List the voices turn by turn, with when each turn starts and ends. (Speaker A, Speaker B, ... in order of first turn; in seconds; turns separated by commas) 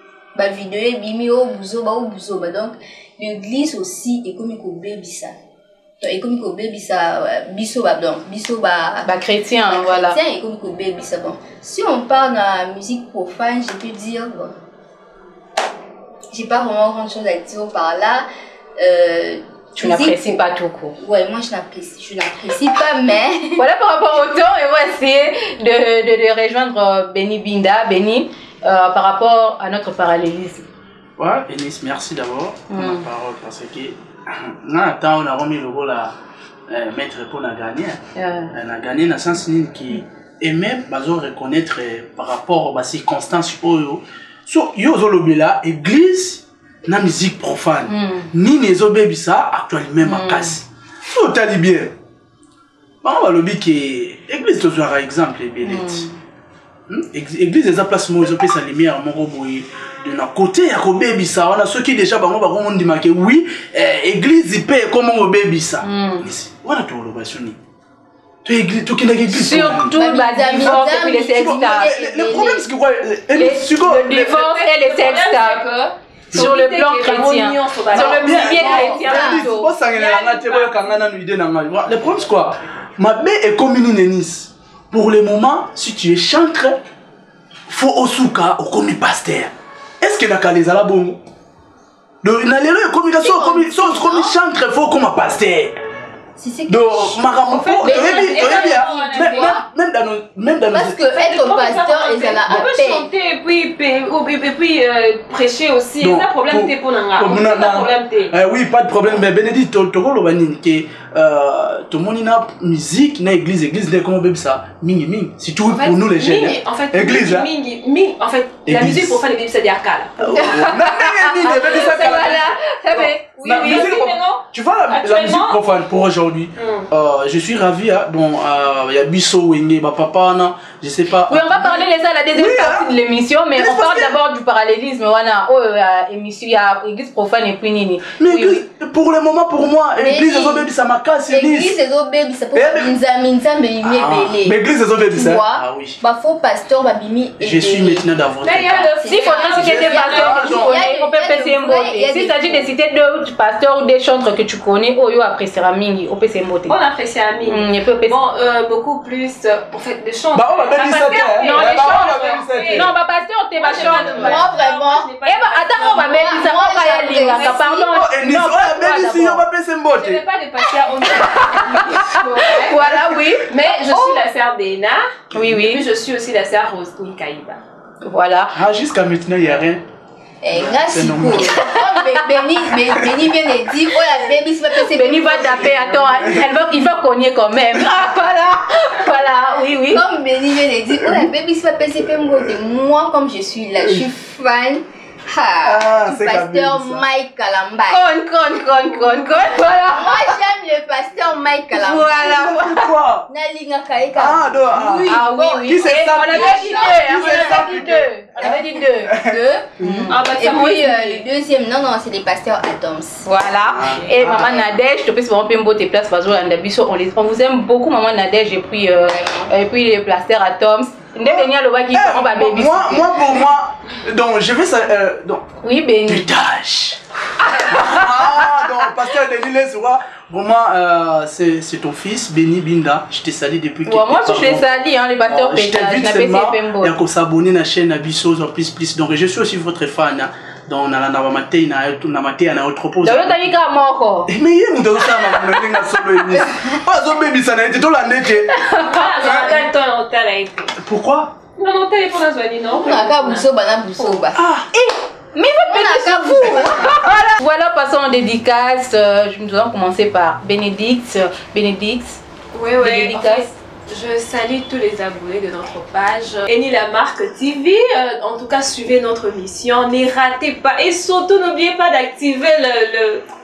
Speaker A: 0.3-5.3, Speaker A: 6.0-9.1, Speaker B: 9.0-10.2, Speaker A: 9.7-14.5, Speaker A: 16.3-18.2, Speaker A: 18.8-20.4, Speaker B: 19.8-20.9, Speaker A: 21.0-23.6, Speaker B: 23.6-30.6, Speaker C: 31.2-36.1, Speaker B: 32.7-33.0, Speaker C: 36.7-38.0, Speaker B: 38.1-38.5, Speaker C: 38.5-51.9, Speaker B: 47.9-48.3, Speaker B: 50.0-50.5, Speaker C: 53.0-56.1, Speaker B: 55.6-56.1, Speaker C: 56.9-67.6, Speaker B: 65.8-66.3, Speaker C: 68.4-69.9, Speaker B: 69.3-71.9, Speaker A: 69.9-72.6, Speaker C: 70.6-74.3, Speaker B: 73.3-75.6, Speaker D: 74.1-80.9, Speaker B: 76.3-79.7, Speaker C: 77.9-86.8, Speaker A: 78.7-79.5, Speaker C: 87.7-91.2, Speaker C: 92.2-95.8, Speaker A: 93.2-94.3, Speaker A: 96.4-99.6, Speaker C: 96.7-101.0, Speaker D: 97.5-99.6, Speaker A: 100.7-103.1, Speaker D: 101.1-108.3, Speaker C: 106.0-117.5, Speaker D: 115.6-120.6, Speaker C: 118.7-119.2, Speaker C: 120.2-132.9, Speaker B: 120.3-123.9, Speaker D: 121.6-122.4, Speaker D: 123.4-125.6, Speaker D: 126.6-126.9, Speaker B: 131.3-138.6, Speaker C: 133.6-134.2, Speaker C: 138.2-141.8, Speaker A: 140.0-140.7, Speaker A: 141.3-144.6, Speaker C: 142.5-142.9, Speaker C: 143.8-146.0, Speaker A: 145.1-148.1, Speaker C: 147.4-149.0, Speaker D: 148.4-150.4, Speaker A: 149.0-152.7, Speaker B: 149.1-156.7, Speaker C: 149.5-150.7, Speaker D: 156.7-162.9, Speaker B: 157.4-158.2, Speaker C: 160.3-162.9, Speaker B: 161.4-164.4, Speaker D: 163.6-166.6, Speaker C: 163.8-164.1, Speaker A: 164.2-165.1, Speaker B: 165.2-169.4, Speaker A: 166.0-167.9, Speaker C: 167.9-170.2, Speaker D: 170.0-172.8, Speaker B: 171.1-174.2, Speaker C: 172.9-173.2, Speaker D: 173.5-177.6, Speaker B: 175.3-175.8, Speaker B: 178.0-178.5, Speaker C: 178.5-179.8, Speaker A: 180.4-186.4, Speaker C: 180.5-181.7, Speaker B: 184.8-190.0, Speaker A: 189.9-198.1, Speaker C: 191.0-191.3, Speaker C: 193.8-194.1, Speaker C: 195.6-197.0, Speaker B: 197.9-200.4, Speaker A: 199.8-202.6, Speaker B: 201.7-202.9, Speaker C: 202.2-203.2, Speaker A: 203.3-209.7, Speaker C: 204.1-208.1, Speaker B: 204.8-209.1, Speaker C: 209.1-210.2, Speaker B: 209.8-210.2, Speaker D: 210.1-211.2, Speaker A: 210.2-214.6, Speaker B: 213.2-223.1, Speaker C: 213.6-214.7, Speaker A: 219.1-219.5, Speaker C: 221.2-225.4, Speaker B: 225.6-226.3, Speaker C: 226.1-227.0, Speaker B: 227.5-228.7, Speaker C: 227.6-243.5, Speaker B: 233.8-236.9, Speaker B: 243.0-244.3, Speaker C: 244.3-248.7, Speaker B: 245.2-246.5, Speaker B: 248.5-249.4, Speaker D: 248.9-250.7, Speaker C: 249.2-249.6, Speaker C: 250.8-251.3, Speaker D: 251.6-253.5, Speaker A: 252.7-254.4, Speaker C: 254.3-254.7, Speaker B: 254.7-262.2, Speaker A: 255.7-257.0, Speaker D: 262.5-273.2, Speaker B: 262.8-263.5